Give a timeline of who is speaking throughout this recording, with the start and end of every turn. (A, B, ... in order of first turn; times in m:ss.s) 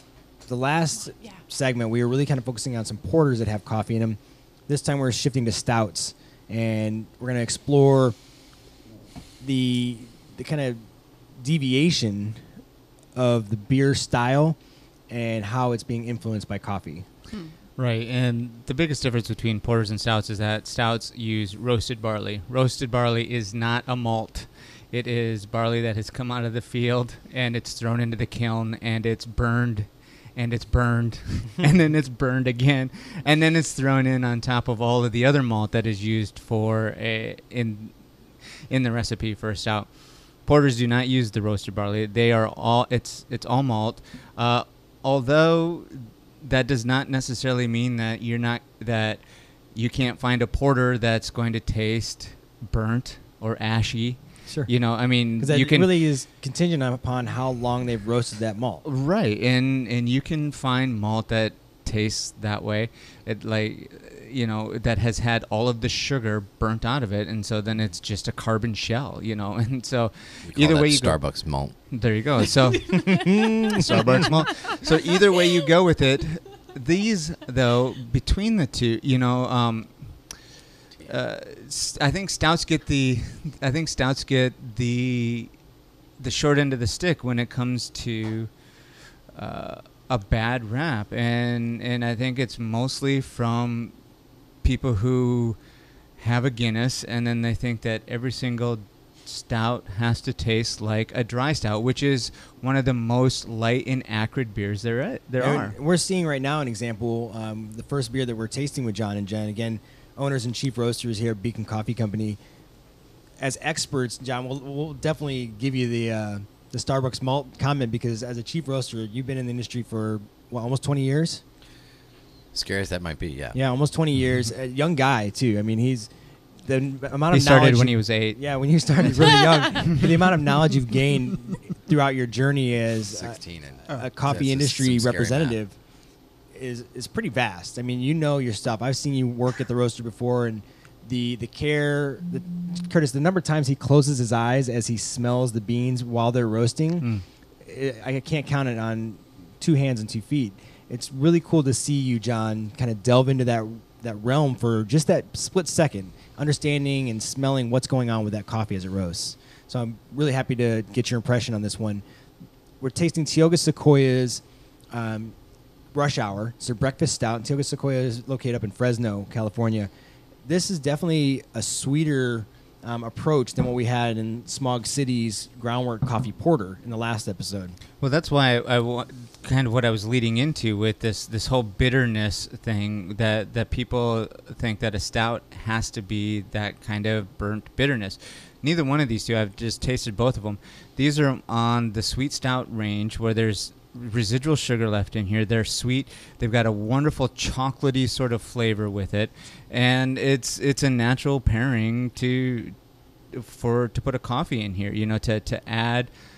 0:00.5-0:08.2 A
0:09.4-0:10.8 A
0:11.4-0:12.4 A
0:13.1-0:14.6 A
0:15.1-0:17.0 A
0:17.8-0:38.1 B
0:38.7-0:55.9 B
0:54.5-0:54.7 A
0:55.4-0:58.8 A
0:58.8-1:11.2 B
1:10.5-1:11.8 C
1:11.8-1:20.1 B
1:12.9-1:14.3 A
1:21.0-1:25.5 B
1:26.2-1:28.5 B
1:29.3-1:34.0 B
1:34.6-1:35.6 B
1:36.2-1:45.8 B
1:45.4-1:52.4 A
1:53.4-2:01.4 A
2:02.5-2:03.6 C
2:03.5-2:06.1 A
2:06.6-2:15.8 A
2:07.3-2:08.4 B
2:09.0-2:09.3 B
2:13.1-2:15.6 C
2:16.5-2:27.1 A
2:27.6-2:42.0 A
2:42.8-2:45.3 A
2:45.9-2:49.9 A
2:50.4-2:57.8 A
2:58.0-3:22.8 B
3:23.3-3:26.1 B